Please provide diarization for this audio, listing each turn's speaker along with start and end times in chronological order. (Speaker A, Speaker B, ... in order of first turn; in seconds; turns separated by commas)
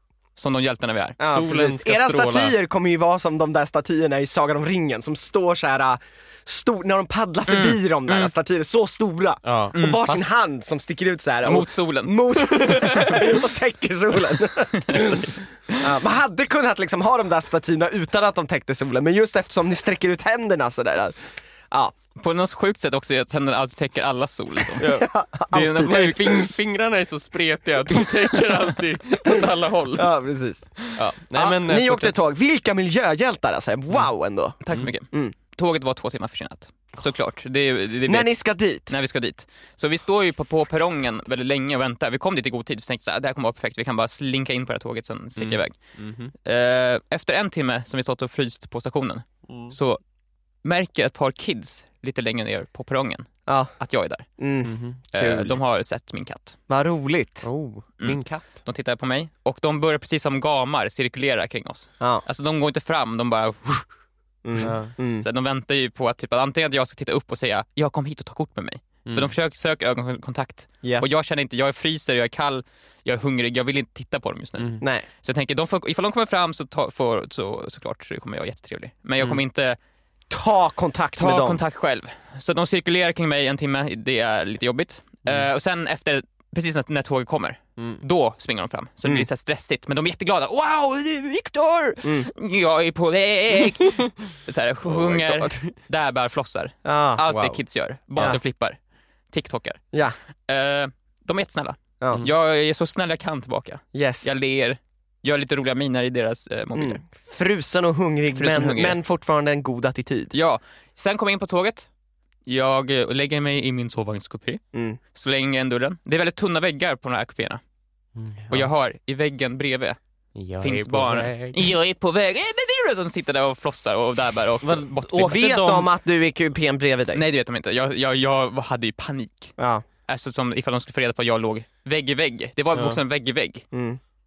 Speaker A: 0.4-1.2, Speaker B: 1.2-21.2, Speaker C: 1.2-2.5, Speaker A: 7.5-8.3, Speaker C: 9.4-9.8, Speaker A: 9.8-10.2, Speaker A: 11.4-12.8, Speaker C: 12.7-13.2, Speaker A: 14.7-15.8, Speaker A: 22.2-25.0, Speaker C: 24.8-25.1, Speaker B: 24.8-25.8, Speaker A: 25.5-26.5, Speaker C: 25.7-30.1, Speaker B: 30.0-30.8, Speaker C: 30.9-32.1, Speaker B: 31.4-34.6, Speaker A: 34.6-38.3, Speaker B: 38.1-38.9, Speaker A: 38.9-45.8, Speaker C: 45.4-46.3, Speaker A: 46.4-50.0, Speaker C: 49.5-49.8, Speaker A: 50.6-54.3, Speaker B: 53.5-53.7, Speaker B: 54.4-55.6, Speaker C: 54.6-55.0, Speaker A: 55.1-56.6, Speaker B: 56.7-57.4, Speaker C: 57.4-58.5, Speaker A: 58.0-63.9, Speaker B: 64.4-65.2, Speaker C: 64.6-64.9, Speaker A: 64.6-79.8, Speaker C: 69.1-69.3, Speaker C: 74.6-74.8, Speaker B: 74.8-75.1, Speaker B: 80.3-81.6, Speaker A: 81.2-98.8, Speaker B: 92.0-92.3, Speaker C: 93.8-94.1, Speaker C: 94.8-95.7, Speaker B: 96.8-97.2, Speaker C: 97.3-97.6, Speaker A: 99.3-99.8, Speaker A: 100.5-107.0, Speaker B: 103.9-104.3, Speaker B: 106.8-110.3, Speaker A: 108.3-109.0, Speaker A: 110.3-111.9, Speaker A: 112.5-114.6, Speaker B: 114.7-115.0, Speaker A: 115.1-117.6, Speaker C: 118.2-118.7, Speaker A: 118.5-120.0, Speaker C: 120.4-121.7, Speaker A: 120.6-125.4, Speaker C: 124.6-125.9, Speaker B: 125.2-127.2, Speaker A: 127.1-129.5, Speaker B: 129.6-129.8, Speaker A: 130.1-133.7, Speaker C: 132.7-133.0, Speaker B: 133.7-134.0